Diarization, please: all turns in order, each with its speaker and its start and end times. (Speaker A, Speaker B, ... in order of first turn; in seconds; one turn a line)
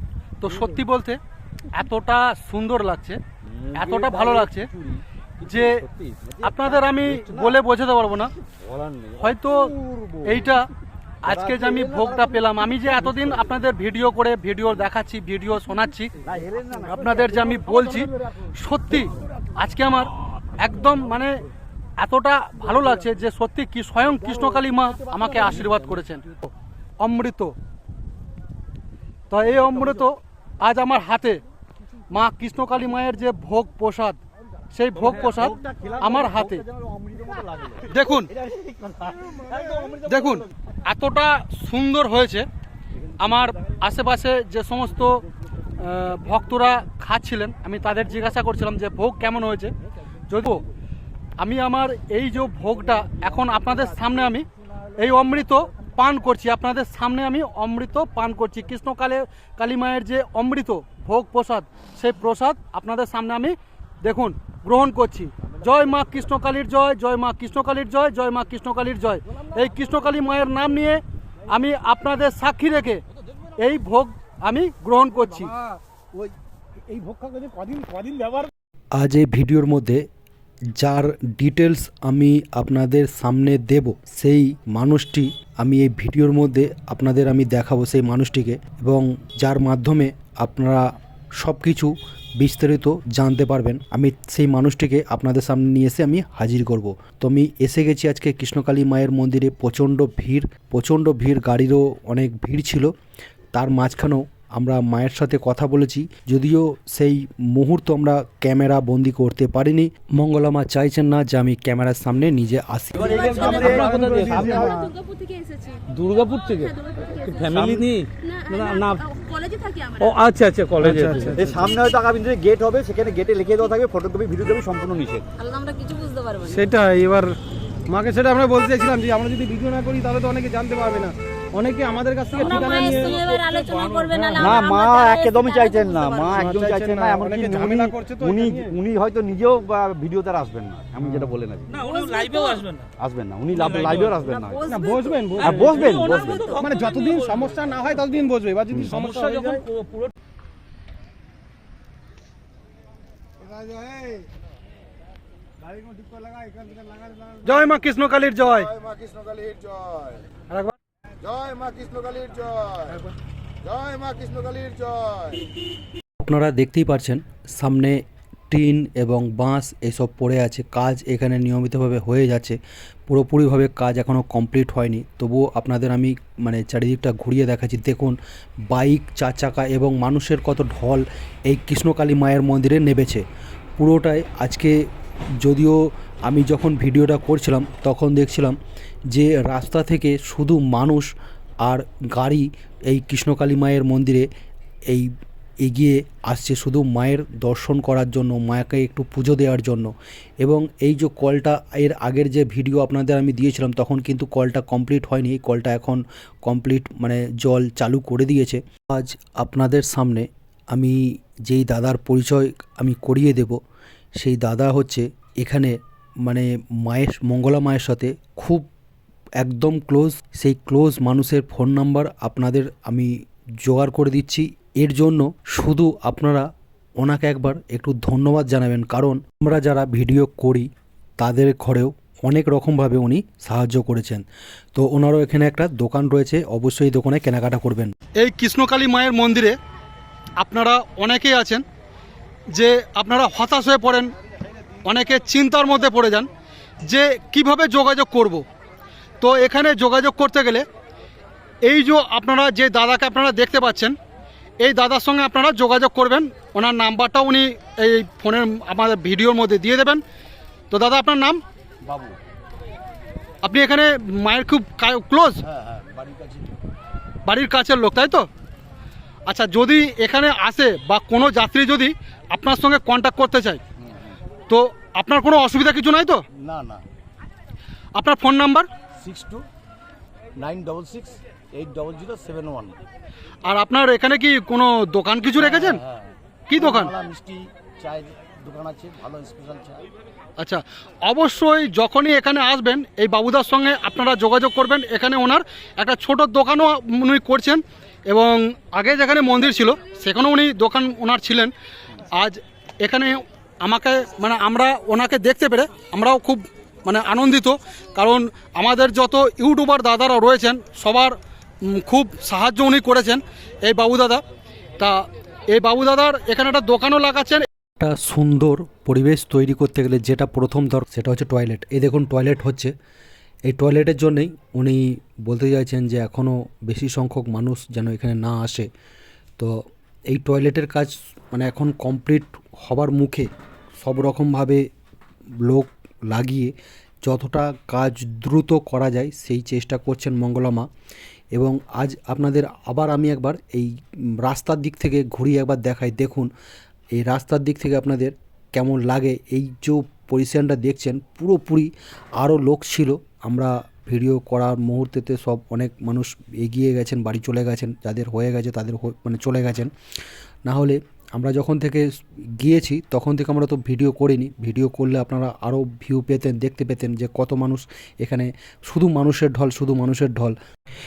Speaker A: 0.4-1.2
Speaker B: 0.5-0.8
Speaker A: 1.7-3.2
Speaker B: 3.5-7.6
Speaker A: 3.8-4.7
Speaker A: 5.5-5.8
Speaker A: 6.4-8.3
Speaker B: 8.4-10.6
Speaker A: 9.2-9.7
Speaker A: 10.2-10.6
Speaker A: 11.2-16.1
Speaker B: 11.2-13.6
Speaker B: 16.2-18.1
Speaker A: 16.9-21.4
Speaker A: 22.0-26.5
Speaker B: 25.2-25.9
Speaker A: 27.0-27.6
Speaker A: 29.3-31.4
Speaker B: 29.6-30.0
Speaker A: 32.1-34.2
Speaker A: 34.7-36.6
Speaker B: 35.0-40.5
Speaker A: 37.9-38.3
Speaker A: 40.0-42.5
Speaker A: 43.2-45.2
Speaker B: 43.3-43.5
Speaker A: 45.8-49.7
Speaker A: 50.3-50.6
Speaker A: 51.4-73.0
Speaker A: 73.6-75.6
Speaker C: 75.6-76.3
Speaker C: 76.9-78.5
Speaker D: 79.0-80.0
Speaker D: 80.8-90.9
Speaker D: 91.4-102.9
Speaker D: 103.5-113.8
Speaker B: 113.0-114.9
Speaker E: 113.0-120.2
Speaker C: 113.5-114.9
Speaker F: 113.9-114.2
Speaker F: 115.9-116.7
Speaker B: 117.3-117.9
Speaker F: 117.5-119.0
Speaker F: 120.0-121.4
Speaker C: 120.8-121.5
Speaker B: 121.3-125.3
Speaker E: 121.5-121.8
Speaker E: 125.4-126.7
Speaker C: 126.5-127.4
Speaker C: 127.9-133.4
Speaker E: 132.3-136.4
Speaker B: 134.3-141.9
Speaker C: 136.3-138.8
Speaker E: 141.7-142.7
Speaker F: 142.0-142.7
Speaker B: 143.0-144.6
Speaker E: 144.1-146.7
Speaker C: 144.7-145.9
Speaker B: 145.4-146.6
Speaker F: 146.5-147.2
Speaker C: 146.6-149.7
Speaker B: 148.7-149.0
Speaker F: 149.1-149.9
Speaker C: 153.8-154.1
Speaker C: 156.1-157.2
Speaker A: 157.4-158.8
Speaker B: 161.6-162.0
Speaker D: 166.2-178.2
Speaker D: 178.7-183.2
Speaker D: 183.8-184.8
Speaker D: 185.4-188.6
Speaker D: 189.1-194.3
Speaker D: 195.6-213.6
Speaker D: 214.2-218.7
Speaker D: 219.4-226.5
Speaker D: 227.0-237.9
Speaker A: 238.2-239.6
Speaker A: 240.4-241.6
Speaker A: 242.5-244.1
Speaker A: 244.8-246.3
Speaker A: 246.8-248.4
Speaker A: 249.2-250.7
Speaker A: 251.7-253.9
Speaker A: 254.6-260.0
Speaker A: 260.7-261.4
Speaker B: 261.8-262.2
Speaker A: 263.4-265.4
Speaker B: 265.4-266.6
Speaker A: 267.3-268.3
Speaker A: 269.3-273.6
Speaker B: 273.8-274.2
Speaker A: 274.5-276.2
Speaker B: 276.4-276.9
Speaker A: 277.9-278.7
Speaker B: 279.0-279.5
Speaker B: 280.4-282.8
Speaker A: 283.4-285.8
Speaker B: 285.4-289.9
Speaker A: 286.5-286.9
Speaker A: 290.4-301.5
Speaker A: 302.1-314.2
Speaker A: 314.8-317.5
Speaker D: 317.8-322.7
Speaker D: 323.5-328.7
Speaker D: 329.4-333.3
Speaker D: 333.8-334.6
Speaker D: 335.4-340.7
Speaker D: 341.4-346.3
Speaker D: 346.9-359.7
Speaker D: 360.5-370.4